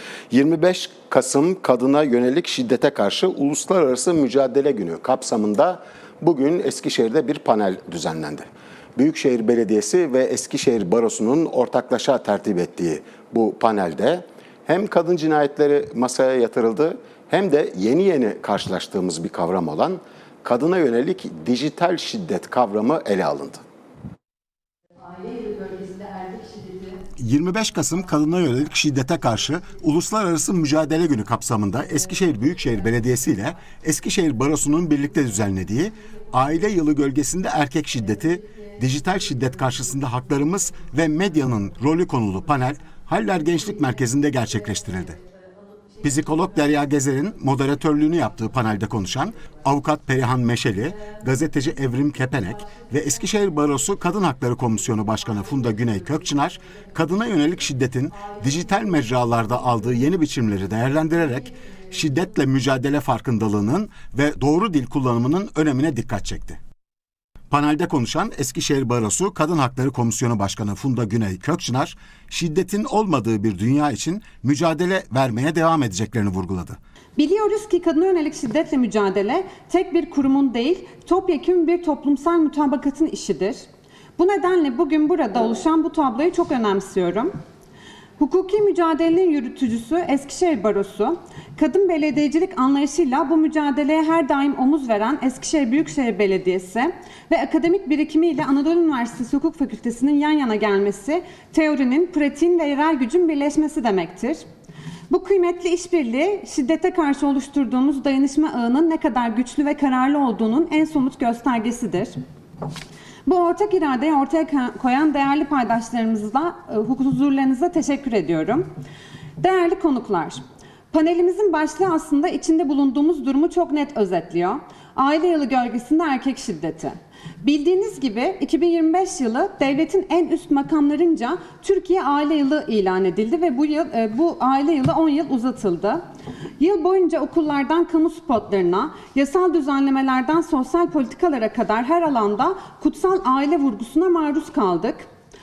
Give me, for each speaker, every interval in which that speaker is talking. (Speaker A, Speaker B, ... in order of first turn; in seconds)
Speaker A: 0.3-8.5, 9.0-23.6, 27.2-45.2, 46.0-66.6, 67.5-76.8
Speaker B: 25.0-27.0, 38.4-38.8
Speaker C: 77.2-83.7, 84.2-87.3, 88.2-104.4, 105.1-112.2, 113.3-118.7, 119.4-120.4, 120.9-136.0, 136.6-145.1